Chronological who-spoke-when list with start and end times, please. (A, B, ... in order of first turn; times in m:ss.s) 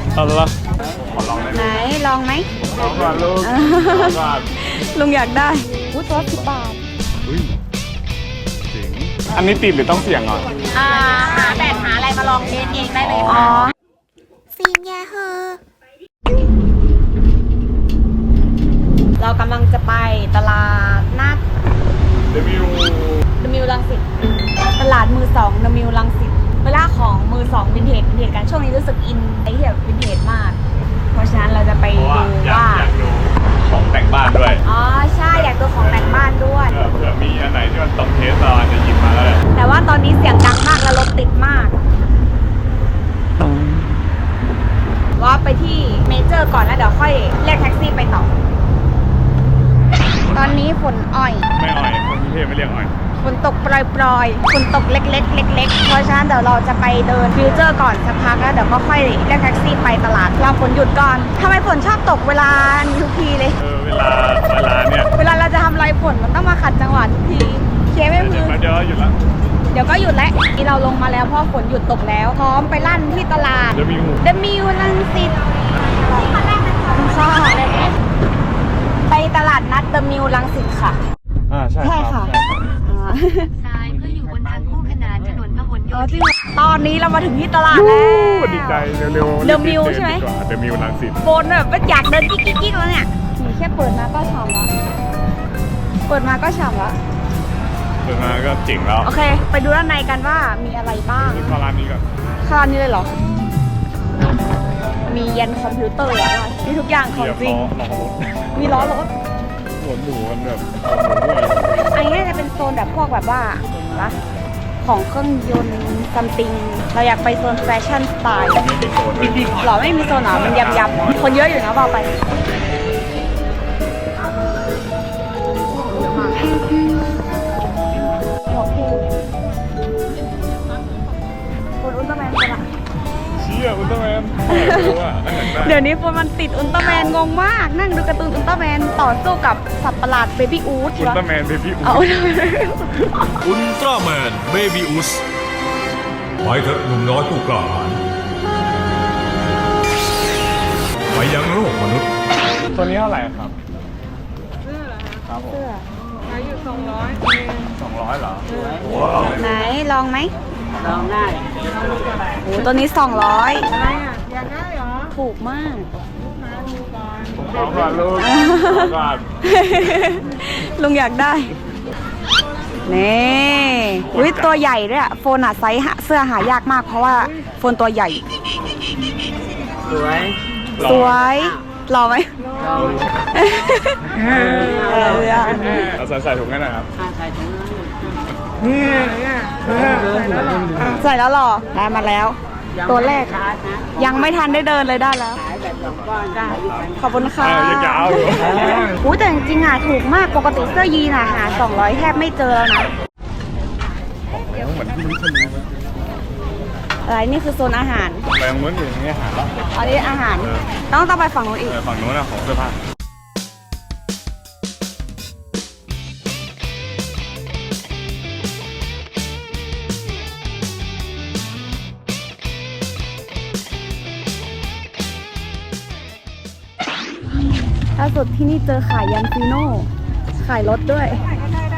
0:00.1-0:01.8 A
0:01.5-0:02.5 B
0:02.6-0:04.5 A
0:03.4-0:06.8 B
0:07.2-0:07.5 A
0:08.7-0:10.5 A
0:10.8-0:11.6 B
0:10.9-0:13.3 C
0:12.9-0:13.7 A
0:13.1-0:13.7 B
0:14.6-0:15.5 B
0:19.2-0:21.4 B
0:22.3-0:23.2 A
0:23.4-0:24.0 B
0:24.8-0:30.6 B
0:31.1-0:32.9 B
0:31.9-0:34.6 A
0:34.6-0:36.8 B
0:35.3-0:39.4 A
0:39.5-0:41.8 B
0:45.2-0:48.3 B
0:50.3-0:51.5 B
0:51.5-0:52.9 A
0:53.2-1:03.6 B
1:03.6-1:05.1 A
1:05.1-1:08.6 B
1:08.1-1:09.2 A
1:09.7-1:17.9 B
1:13.7-1:14.2 A
1:19.1-1:21.0 B
1:21.5-1:22.7 A
1:21.8-1:23.5 B
1:23.6-1:26.3 C
1:25.9-1:28.9 B
1:27.7-1:31.2 A
1:29.4-1:30.2 B
1:31.2-1:34.7 B
1:36.1-1:37.0 B
1:38.0-1:39.1 A
1:39.0-1:41.5 B
1:41.2-1:42.0 A
1:42.4-1:43.1 B
1:45.1-1:47.6 B
1:47.1-1:48.9 A
1:48.5-1:49.1 B
1:49.8-1:51.9 A
1:51.9-1:54.2 B
1:54.8-1:58.6 B
1:58.5-2:01.4 A
1:59.5-2:02.2 B
2:05.7-2:06.6 B
2:08.5-2:09.1 B
2:11.8-2:12.6 B
2:13.4-2:15.8 A
2:14.5-2:14.9 B
2:15.6-2:21.2 B
2:21.0-2:22.0 A
2:21.8-2:23.3 B
2:23.4-2:25.2 D
2:26.4-2:28.0 D
2:31.1-2:32.1 D
2:32.7-2:33.5 A
2:35.2-2:35.6 A
2:35.5-2:35.8 B
2:37.8-2:39.4 A
2:38.5-2:38.8 E
2:39.3-2:40.3 B
2:40.8-2:41.4 E
2:42.4-2:43.7 B
2:45.1-2:45.9 B
2:47.4-2:49.2 A
2:48.2-2:51.5 B
2:52.8-2:58.2 B
2:54.1-2:54.5 A
2:59.8-3:00.3 E
3:00.8-3:01.2 A
3:00.8-3:02.3 B
3:02.6-3:03.0 E
3:03.3-3:04.1 B
3:04.2-3:05.8 E
3:04.8-3:05.9 B
3:05.9-3:06.9 A
3:07.0-3:08.1 E
3:09.8-3:10.1 A
3:09.8-3:10.8 E
3:10.8-3:13.4 B
3:12.8-3:14.4 E
3:14.0-3:15.4 B
3:15.4-3:17.0 E
3:17.0-3:22.9 B
3:17.4-3:18.9 A
3:24.3-3:25.8 A
3:27.0-3:28.2 B
3:28.3-3:29.6 A
3:29.7-3:31.7 B
3:31.6-3:32.8 A
3:48.0-3:51.2 B